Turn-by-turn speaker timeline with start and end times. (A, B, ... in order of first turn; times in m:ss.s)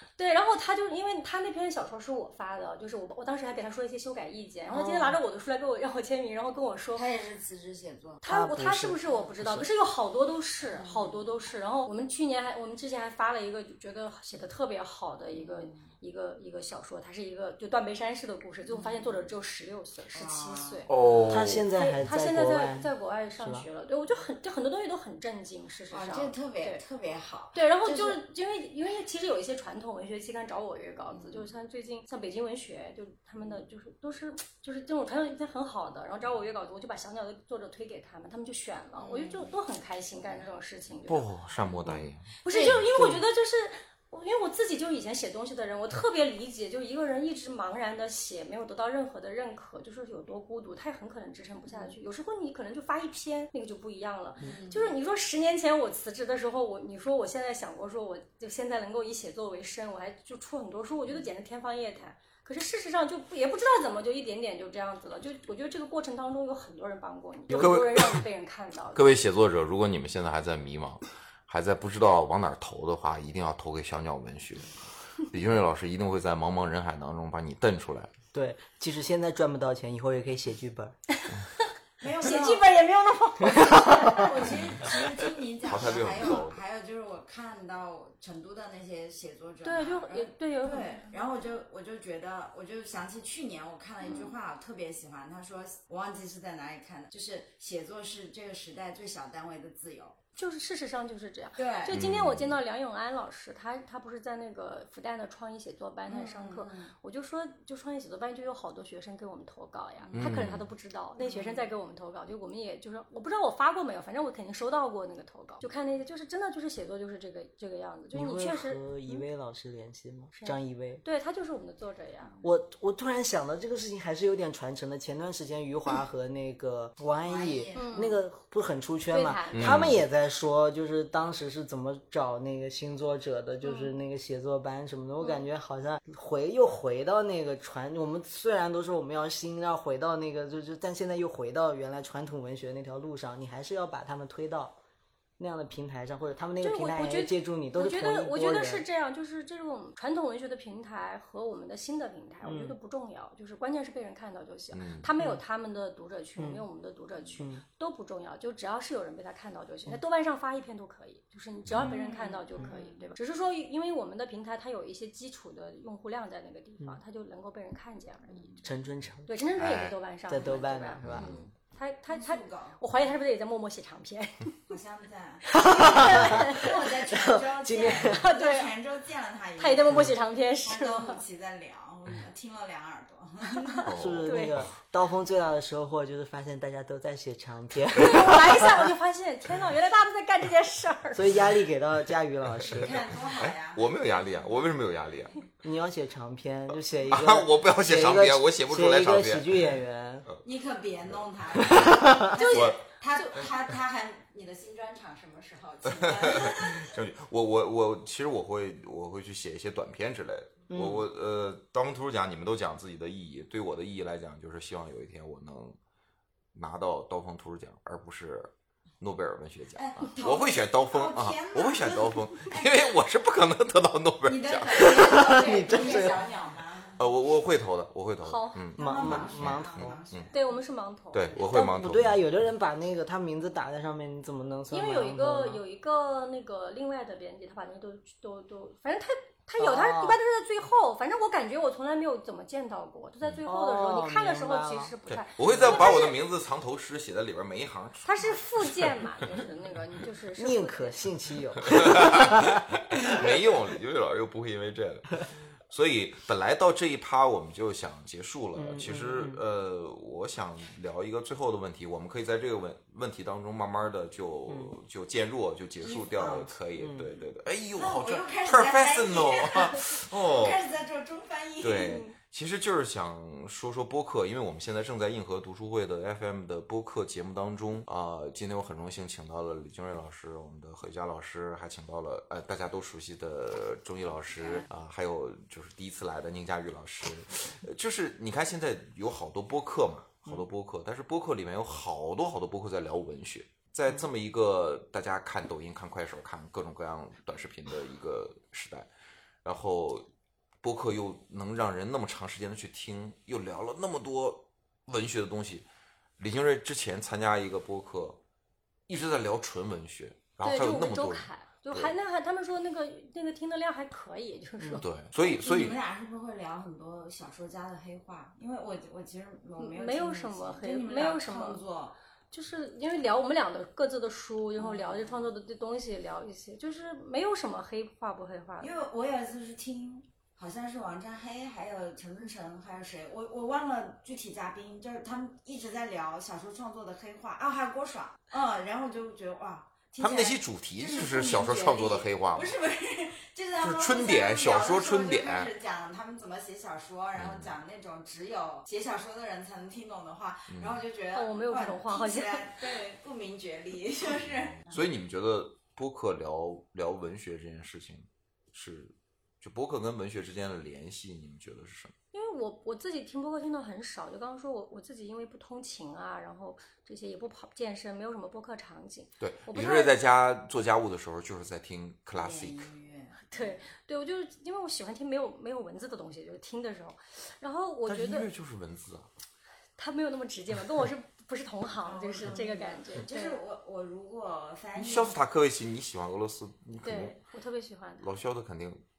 0:00.2-0:07.1 A
0:04.7-0:05.2 B
0:06.9-0:08.2 C
0:08.2-0:20.9 A
0:08.2-0:09.7 B
0:10.6-0:11.2 C
0:15.3-0:15.9 C
0:18.7-0:19.3 C
0:20.1-0:20.9 C
0:20.9-0:21.6 D
0:21.3-0:23.7 B
0:21.8-0:26.8 A
0:25.9-0:28.2 C
0:27.5-0:41.3 A
0:31.1-0:31.5 C
0:39.0-0:39.6 C
0:41.1-0:42.3 D
0:42.4-1:09.0 A
0:42.5-0:42.9 C
0:42.9-0:43.2 B
0:51.7-0:51.9 C
0:54.4-0:54.9 C
1:07.5-1:08.2 D
1:08.9-1:18.1 D
1:18.3-1:21.0 B
1:22.0-1:22.6 C
1:22.2-1:25.1 A
1:23.4-1:24.3 B
1:24.1-1:40.2 C
1:25.6-1:26.6 D
1:29.6-1:31.2 A
1:34.0-1:34.3 A
1:40.4-1:59.2 A
1:41.6-1:42.0 C
1:41.9-1:42.6 D
1:46.1-1:46.9 C
1:50.0-1:50.3 C
1:50.2-1:50.7 D
1:51.2-1:51.7 C
1:58.1-2:01.0 B
2:00.3-2:02.4 A
2:02.4-2:24.8 B
2:07.2-2:08.1 C
2:07.7-2:08.2 A
2:09.1-2:09.9 A
2:09.5-2:10.0 D
2:13.6-2:13.9 A
2:25.4-2:28.8 B
2:26.6-2:48.6 A
2:32.4-2:32.7 B
2:34.7-2:35.1 D
2:36.4-2:36.6 B
2:37.4-2:37.6 B
2:41.6-2:41.9 D
2:41.8-2:43.1 C
2:48.3-2:48.6 C
2:48.6-2:49.3 B
2:49.3-2:54.7 A
2:49.6-2:50.0 D
2:50.3-2:51.3 B
2:51.0-2:51.4 D
2:52.1-2:52.8 C
2:54.7-3:03.9 C
2:55.5-2:58.2 B
2:55.5-2:56.9 A
2:57.7-2:58.7 A
2:59.6-3:01.2 A
3:03.6-3:04.6 A
3:03.8-3:04.7 D
3:03.9-3:08.9 B
3:08.0-3:11.4 A
3:11.1-3:13.0 B
3:12.7-3:14.1 C
3:13.4-3:15.4 D
3:15.6-3:20.3 B
3:17.0-3:19.6 D
3:20.4-3:26.9 C
3:21.1-3:21.8 D
3:21.7-3:22.3 B
3:22.3-3:23.3 A
3:22.5-3:22.8 D
3:26.1-3:35.8 D
3:30.7-3:31.0 B
3:36.5-3:45.0 D
3:39.7-3:42.9 C
3:44.2-3:47.0 C
3:44.7-3:46.2 B
3:47.0-3:50.3 D
3:48.2-3:48.7 A
3:48.8-3:50.0 B
3:48.8-3:50.6 C
3:50.3-3:51.5 A
3:51.1-3:52.2 D
3:51.5-3:55.6 B
3:54.7-4:06.2 A
3:59.6-4:00.2 B
4:03.4-4:04.9 B
4:05.1-4:09.3 D
4:05.4-4:05.9 B
4:08.0-4:11.0 A
4:10.4-4:12.6 B
4:11.7-4:30.6 D
4:18.6-4:19.4 B
4:24.5-4:24.7 B
4:25.8-4:26.1 C
4:26.2-4:27.1 B
4:27.8-4:32.0 C
4:31.6-4:58.9 D
4:44.4-4:44.6 C
4:59.4-5:00.1 D
5:00.6-5:05.7 D
5:06.2-5:08.2 D
5:08.9-5:11.9 D
5:10.4-5:14.9 A
5:14.8-5:15.8 D
5:15.2-5:22.0 C
5:19.6-5:21.6 A
5:22.3-5:28.7 A
5:24.6-5:25.3 C
5:28.6-5:54.8 C
5:40.0-5:42.6 D
5:43.6-5:45.5 D
5:47.2-5:47.5 D
5:50.5-5:50.8 D
5:51.1-5:52.7 A
5:54.2-6:01.9 D
6:02.1-6:09.9 A
6:09.2-6:12.7 D
6:12.2-6:13.6 C
6:13.3-6:18.3 A
6:17.8-6:19.1 D
6:19.8-6:23.4 A
6:21.8-6:25.2 C
6:24.7-6:27.2 D
6:26.8-6:28.1 A
6:28.0-6:28.8 D